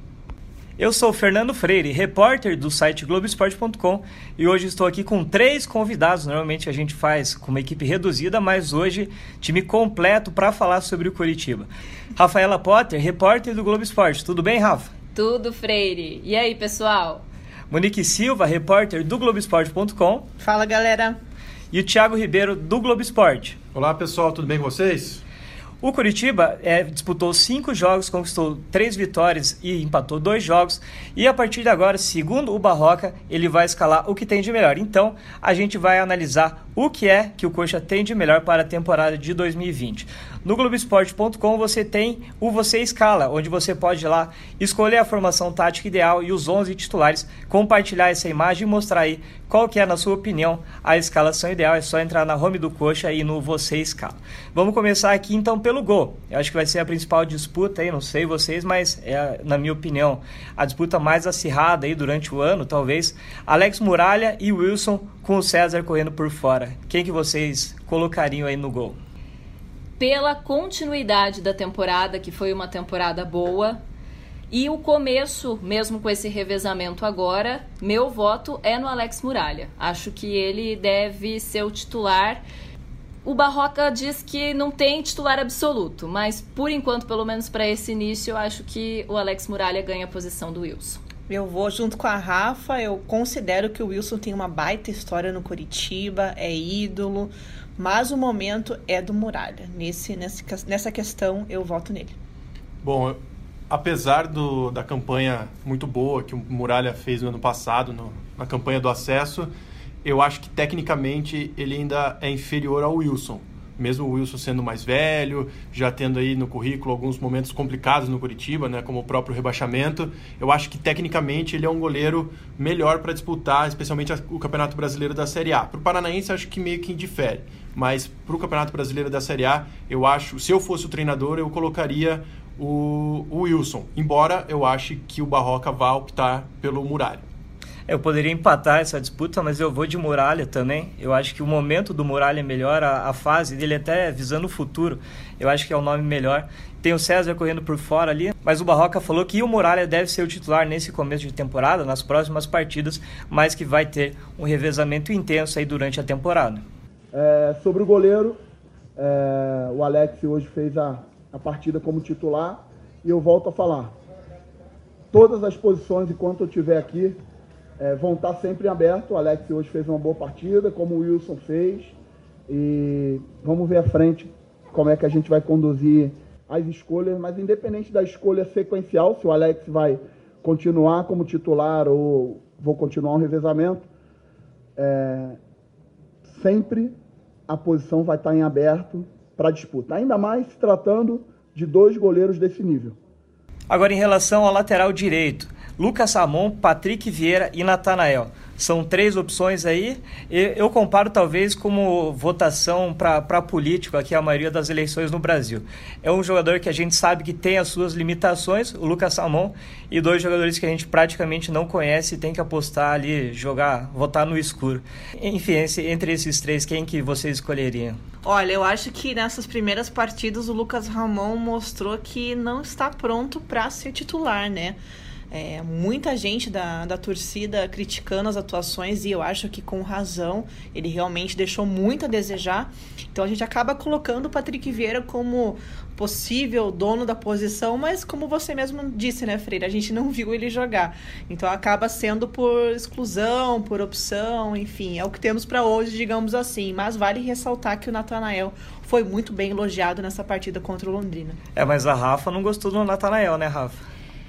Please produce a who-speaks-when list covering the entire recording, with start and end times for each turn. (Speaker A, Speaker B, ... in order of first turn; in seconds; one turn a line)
Speaker A: 0.8-14.9
Speaker B: 15.1-17.2
Speaker A: 17.7-20.3
Speaker C: 20.4-21.2
Speaker A: 21.7-23.6
Speaker D: 23.7-25.2
Speaker A: 25.8-69.0
Speaker B: 70.0-73.8
Speaker B: 74.5-82.4
Speaker B: 83.2-91.0
Speaker C: 91.3-102.1
Speaker D: 102.8-103.2
Speaker D: 103.7-109.5
Speaker D: 110.0-137.2
Speaker A: 137.9-156.6
Speaker E: 157.1-158.4
Speaker E: 159.0-163.9
Speaker E: 165.1-167.2
Speaker E: 167.8-171.9
Speaker E: 172.5-183.9
Speaker E: 184.8-185.4
Speaker E: 186.3-186.9
Speaker E: 187.5-193.0
Speaker A: 193.7-218.0
Speaker C: 218.2-224.8
Speaker C: 225.3-251.4
Speaker A: 251.6-253.8